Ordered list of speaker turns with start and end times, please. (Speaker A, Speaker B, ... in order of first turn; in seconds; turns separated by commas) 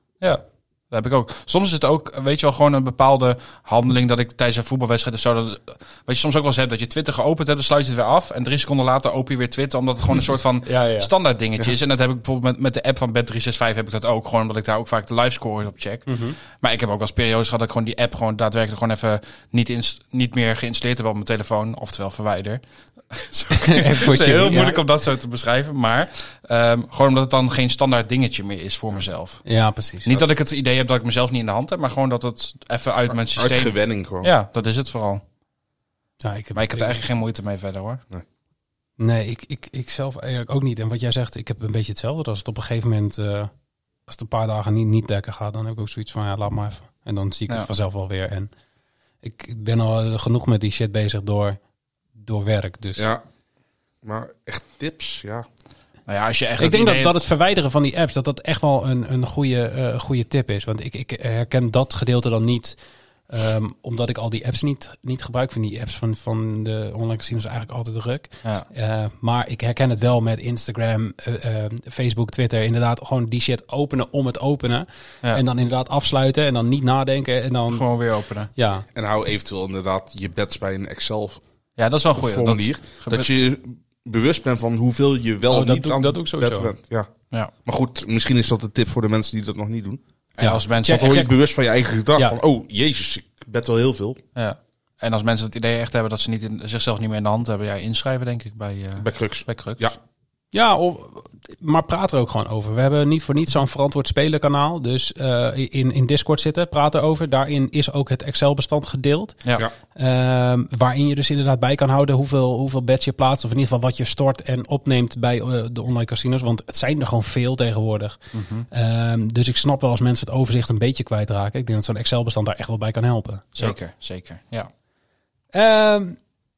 Speaker A: 0.2-29.4, Speaker B: 10.7-11.1, Speaker B: 16.1-16.4, Speaker B: 23.5-24.8, Speaker B: 29.5-30.1, Speaker A: 30.1-35.2, Speaker C: 33.3-34.3, Speaker B: 36.2-37.0, Speaker A: 36.5-38.0, Speaker B: 39.0-43.5, Speaker B: 44.1-48.5, Speaker B: 49.2-51.6, Speaker B: 52.2-53.1, Speaker C: 53.0-53.2, Speaker C: 54.0-55.5, Speaker A: 56.1-57.3, Speaker B: 56.6-62.8, Speaker B: 63.3-77.9, Speaker A: 77.7-78.5, Speaker B: 78.6-78.8, Speaker C: 79.0-81.4, Speaker A: 81.8-83.3, Speaker C: 82.2-87.1, Speaker B: 85.5-86.7, Speaker C: 87.6-90.0, Speaker A: 90.4-91.2, Speaker B: 90.4-91.3, Speaker C: 90.8-94.2, Speaker A: 94.3-99.9, Speaker C: 99.0-100.0, Speaker B: 100.5-109.4, Speaker B: 110.0-118.2, Speaker A: 118.3-118.7, Speaker B: 118.7-123.5, Speaker A: 123.5-124.7, Speaker B: 125.5-126.2